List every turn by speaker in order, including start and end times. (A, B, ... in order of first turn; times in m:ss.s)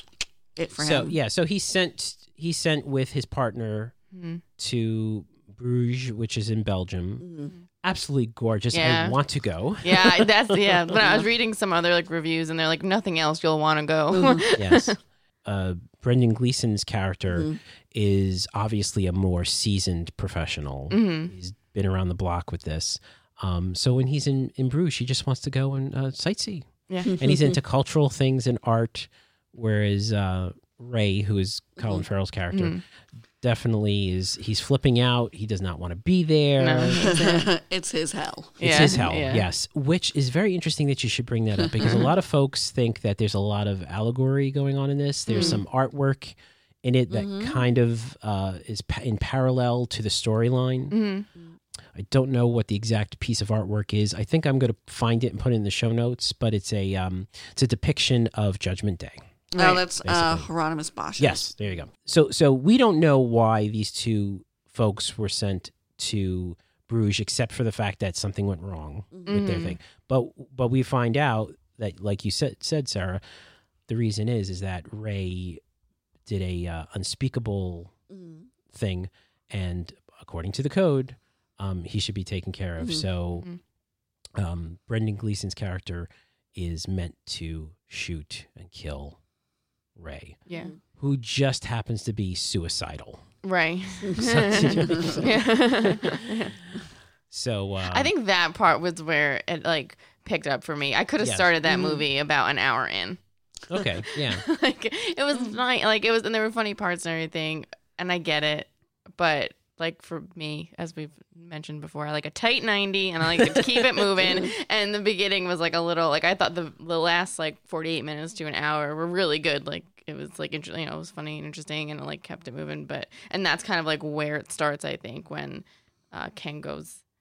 0:00.6-0:01.2 A
0:00.8-0:03.9 B
0:04.1-0:04.4 C
0:04.6-0:07.3 B
0:07.2-0:07.5 A
0:07.8-0:10.2 B
0:08.7-0:09.2 C
0:09.8-0:15.0 C
0:14.1-0:14.5 A
0:14.6-0:32.8 B
0:17.3-0:17.6 A
0:20.9-0:21.3 C
0:26.9-0:27.1 C
0:27.0-0:27.6 A
0:32.5-0:32.8 C
0:33.4-0:37.1 B
0:36.6-0:37.4 C
0:37.0-0:39.1 A
0:38.6-0:39.4 C
0:38.6-0:50.9 B
0:41.6-0:42.1 A
0:45.3-0:45.6 C
0:45.4-0:45.6 A
0:47.1-0:47.6 A
0:50.9-0:51.3 C
0:51.9-1:00.5 B
0:59.6-1:01.5 A
1:01.2-1:13.2 B
1:09.1-1:09.4 A
1:09.3-1:09.8 C
1:13.9-1:15.6 B
1:16.2-1:17.9 B
1:18.1-1:18.5 A
1:18.7-1:23.4 B
1:22.8-1:23.0 A
1:24.4-1:29.2 B
1:30.0-1:30.4 B
1:30.5-1:30.7 C
1:30.5-1:30.7 A
1:31.0-1:33.2 B
1:33.4-1:36.6 C
1:34.1-1:35.2 A
1:34.2-1:35.3 B
1:37.3-1:38.1 B
1:37.9-1:43.2 C
1:41.2-1:41.5 B
1:41.6-1:42.0 A
1:43.7-1:44.4 B
1:43.7-2:07.0 C